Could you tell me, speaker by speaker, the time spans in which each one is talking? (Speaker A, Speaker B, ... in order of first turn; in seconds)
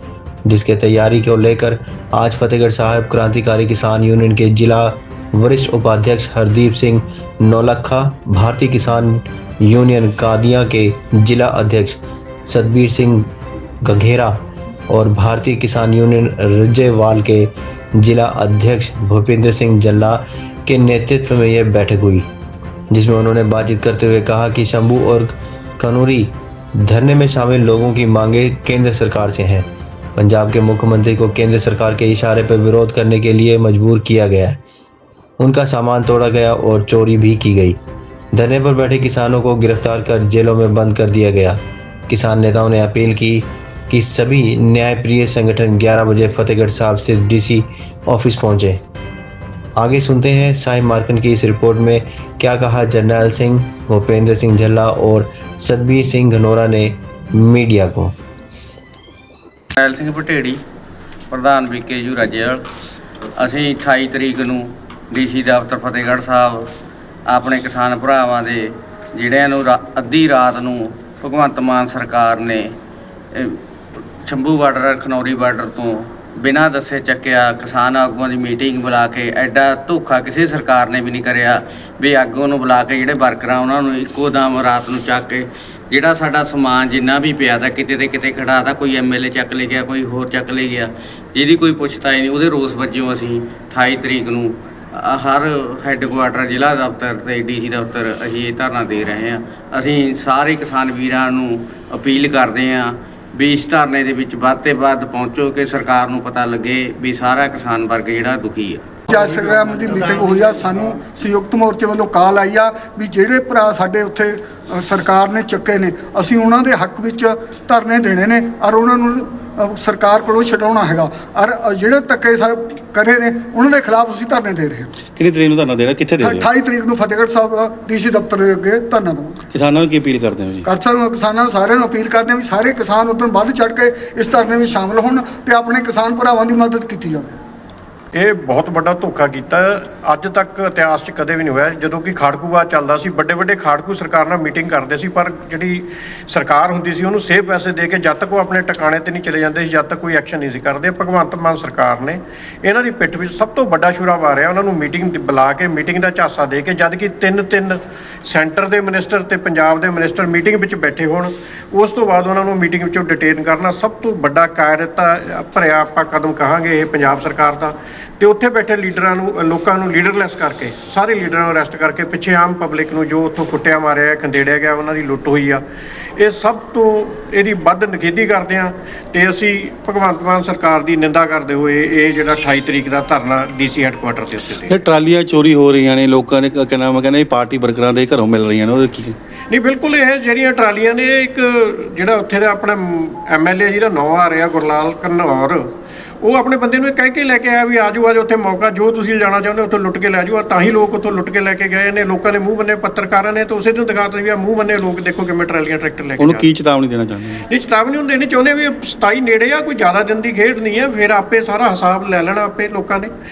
Speaker A: 0.4-13.3, 13.8-22.3, 22.9-34.6, 35.4-37.8, 38.3-48.8, 49.8-58.1
Speaker B: 59.7-60.6, 61.3-62.6, 63.4-66.6, 67.3-72.7, 74.2-108.8
Speaker C: 109.1-124.9, 126.2-129.4, 130.6-137.4
Speaker D: 109.2-110.6, 138.1-175.6, 176.2-184.8, 189.5-195.7, 196.2-206.5, 207.5-213.1
Speaker E: 125.2-126.5, 129.5-130.7, 184.7-189.2, 206.2-207.4